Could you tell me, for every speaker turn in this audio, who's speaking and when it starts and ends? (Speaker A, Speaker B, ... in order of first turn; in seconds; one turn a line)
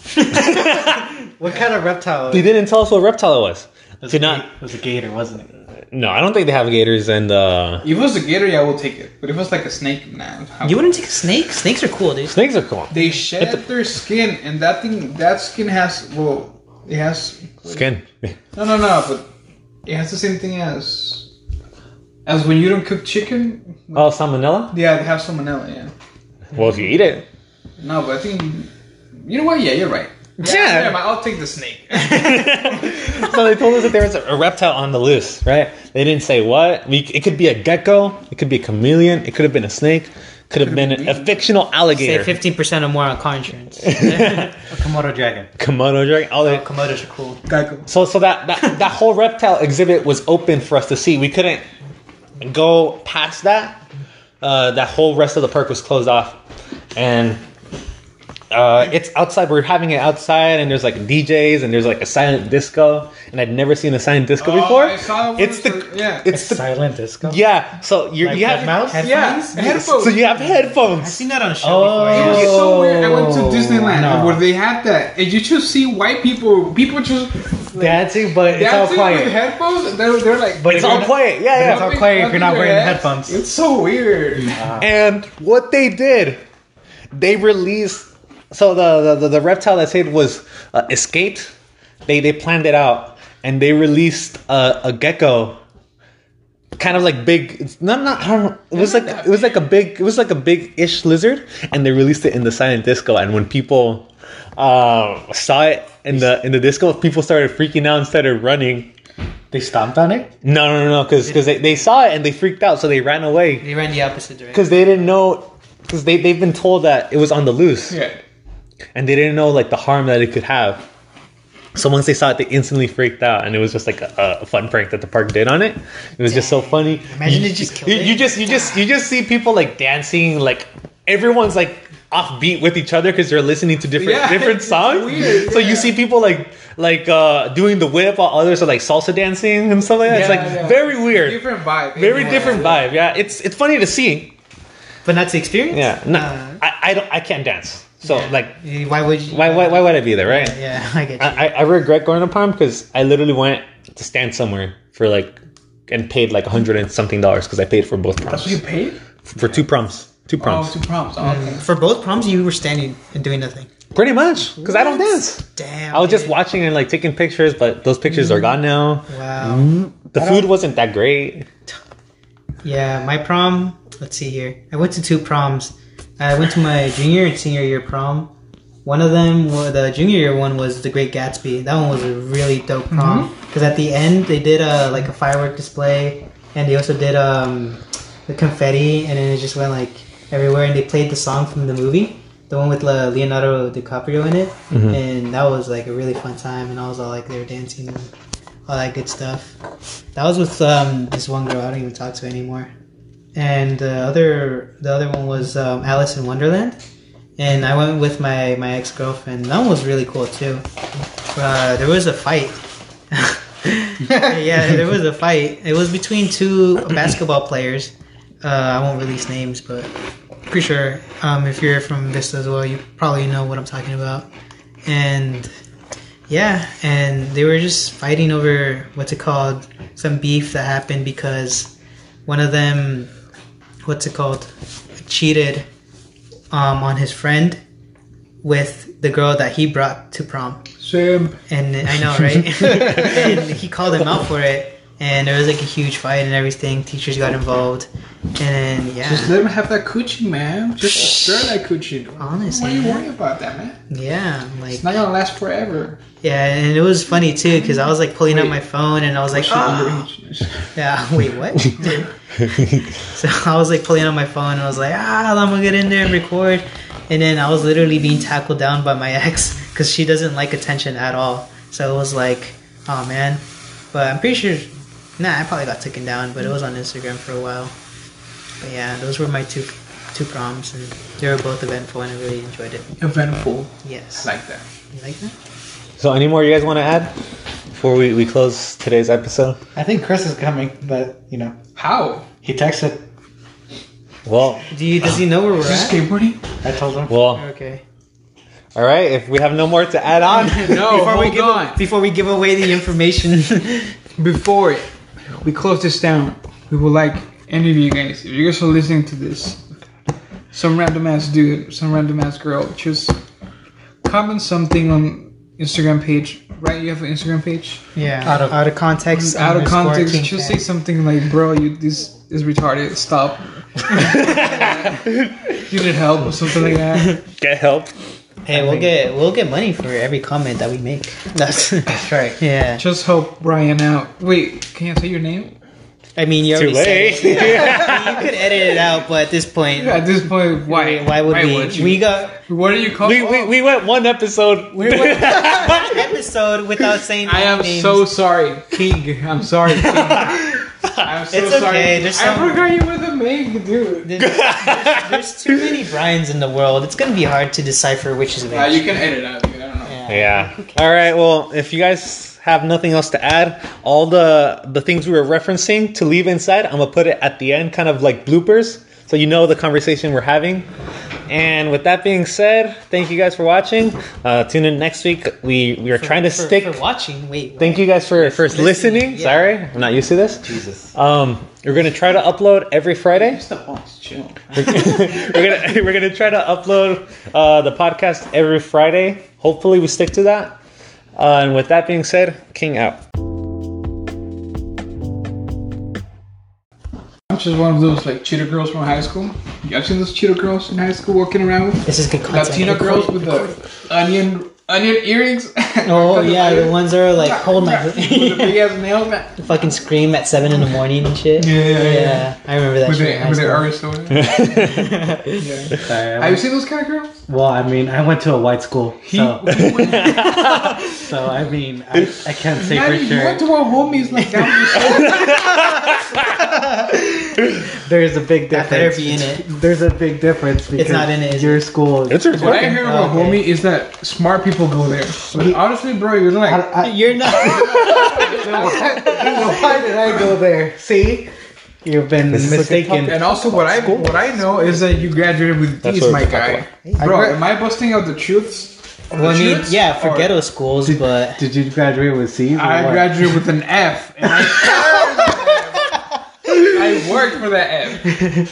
Speaker A: 0.3-1.1
Speaker B: 1.4-2.5
Speaker A: 2.3-4.5
Speaker B: 4.0-5.5
Speaker A: 5.9-7.8
Speaker C: 7.8-10.9
Speaker D: 10.6-12.3
Speaker A: 12.3-13.6
Speaker C: 12.9-17.9
Speaker A: 17.7-18.3
Speaker C: 18.5-19.3
Speaker C: 19.9-21.3
Speaker C: 22.3-24.2
Speaker A: 23.9-24.8
Speaker C: 24.7-25.9
Speaker A: 26.5-27.3
Speaker C: 27.8-32.9
Speaker A: 30.4-31.0
Speaker A: 31.9-42.4
Speaker C: 40.6-41.5
Speaker D: 41.9-44.5
Speaker A: 43.8-44.5
Speaker B: 44.7-45.5
Speaker A: 45.6-46.6
Speaker D: 46.4-47.4
Speaker C: 47.5-47.9
Speaker A: 47.9-51.6
Speaker A: 52.4-53.8
Speaker A: 54.4-56.4
Speaker A: 57.0-57.4
Speaker A: 58.5-66.7
Speaker C: 64.4-66.3
Speaker B: 66.3-67.4
Speaker A: 67.2-68.9
Speaker B: 68.2-69.3
Speaker D: 68.4-69.8
Speaker C: 69.0-70.2
Speaker A: 69.8-71.2
Speaker D: 70.7-72.5
Speaker B: 71.6-74.5
Speaker A: 72.1-72.5
Speaker C: 72.1-84.6
Speaker B: 77.8-79.4
Speaker B: 80.6-83.4
Speaker A: 80.7-82.1
Speaker B: 84.5-84.8
Speaker A: 84.8-86.4
Speaker A: 87.1-91.5
Speaker A: 92.1-95.6
Speaker A: 96.8-108.9
Speaker C: 98.7-99.6
Speaker B: 109.5-110.3
Speaker A: 110.4-113.7
Speaker D: 111.2-111.9
Speaker D: 113.6-114.9
Speaker A: 114.5-118.0
Speaker C: 117.9-118.2
Speaker A: 119.0-120.9
Speaker A: 121.7-144.3
Speaker D: 126.2-128.8
Speaker C: 134.0-136.0
Speaker C: 140.0-142.9
Speaker D: 145.1-146.6
Speaker A: 145.7-148.6
Speaker D: 148.0-151.5
Speaker A: 149.3-150.6
Speaker A: 151.2-155.4
Speaker A: 155.9-158.6
Speaker C: 158.3-159.0
Speaker A: 159.3-160.7
Speaker C: 160.4-161.7
Speaker D: 161.2-163.7
Speaker A: 163.9-171.5
Speaker D: 164.6-166.3
Speaker D: 169.1-169.7
Speaker B: 170.2-170.4
Speaker D: 172.6-178.3
Speaker D: 178.8-198.1
Speaker C: 182.9-183.3
Speaker A: 194.7-195.0
Speaker D: 198.7-199.6
Speaker D: 200.2-202.7
Speaker D: 203.3-206.8
Speaker D: 207.4-210.7
Speaker D: 211.3-219.9
Speaker D: 220.5-224.3
Speaker D: 224.8-225.5
Speaker D: 226.3-231.7
Speaker D: 232.3-233.1
Speaker D: 233.9-235.7
Speaker D: 236.5-237.6
Speaker D: 238.4-240.7
Speaker C: 240.8-241.4
Speaker D: 241.5-249.4
Speaker C: 249.1-253.8
Speaker D: 250.8-251.5
Speaker D: 252.2-253.1
Speaker D: 253.9-254.9
Speaker C: 254.7-256.0
Speaker D: 256.2-260.1
Speaker C: 258.3-258.6
Speaker C: 259.3-260.7
Speaker D: 260.8-262.0
Speaker C: 261.8-262.1
Speaker A: 262.4-262.9
Speaker D: 263.1-277.7
Speaker D: 278.6-282.9
Speaker C: 283.0-284.7
Speaker D: 283.8-284.3
Speaker D: 284.9-285.4
Speaker A: 286.0-287.1
Speaker A: 287.7-289.6
Speaker B: 289.8-291.6
Speaker C: 291.8-292.3
Speaker B: 292.4-293.0
Speaker A: 294.3-294.6
Speaker D: 294.7-296.0
Speaker C: 295.6-296.4
Speaker B: 296.6-297.1
Speaker A: 297.1-297.4
Speaker D: 297.3-297.8
Speaker A: 298.8-300.9
Speaker D: 300.3-303.9
Speaker C: 300.5-301.8
Speaker C: 304.2-304.9
Speaker C: 305.4-309.6
Speaker C: 310.5-313.2
Speaker C: 314.0-317.8
Speaker D: 317.9-320.6
Speaker B: 318.2-318.6
Speaker C: 319.1-325.0
Speaker A: 323.9-325.6
Speaker C: 325.7-327.2
Speaker A: 327.4-327.9
Speaker D: 328.4-332.8
Speaker B: 328.5-328.9
Speaker B: 331.9-332.4
Speaker C: 332.8-335.5
Speaker D: 336.2-342.4
Speaker A: 336.5-338.3
Speaker C: 339.8-343.5
Speaker A: 343.0-346.1
Speaker C: 344.7-345.7
Speaker D: 345.2-348.1
Speaker C: 347.2-354.1
Speaker A: 350.0-350.3
Speaker D: 351.3-352.6
Speaker D: 354.0-359.0
Speaker A: 354.2-355.5
Speaker C: 358.5-360.0
Speaker D: 359.9-361.0
Speaker A: 360.1-370.7
Speaker A: 371.3-376.8
Speaker D: 375.9-379.6
Speaker A: 377.6-380.4
Speaker B: 380.4-380.9
Speaker A: 380.9-383.4
Speaker C: 383.1-385.4
Speaker A: 384.5-390.6
Speaker A: 391.2-393.0
Speaker C: 397.3-409.4
Speaker D: 401.9-403.6
Speaker D: 405.9-408.7
Speaker D: 409.4-413.7
Speaker C: 411.4-412.3
Speaker C: 412.8-414.8
Speaker A: 414.2-415.1
Speaker D: 414.6-415.4
Speaker C: 415.4-417.2
Speaker B: 415.8-416.6
Speaker B: 417.3-419.6
Speaker C: 419.0-420.4
Speaker A: 419.6-420.8
Speaker B: 420.8-424.5
Speaker C: 422.6-425.4
Speaker A: 424.8-426.5
Speaker D: 426.5-427.0
Speaker B: 427.7-432.5
Speaker D: 428.5-429.4
Speaker D: 430.8-431.7
Speaker A: 432.1-432.8
Speaker C: 432.3-436.7
Speaker D: 432.4-433.4
Speaker B: 435.3-435.6
Speaker B: 436.4-441.3
Speaker D: 436.8-439.7
Speaker C: 437.7-440.2
Speaker B: 441.8-444.4
Speaker A: 442.3-444.0
Speaker C: 443.0-450.4
Speaker A: 445.8-446.7
Speaker B: 446.9-447.4
Speaker D: 449.1-451.4
Speaker B: 450.9-453.3
Speaker C: 452.5-456.0
Speaker C: 456.5-458.1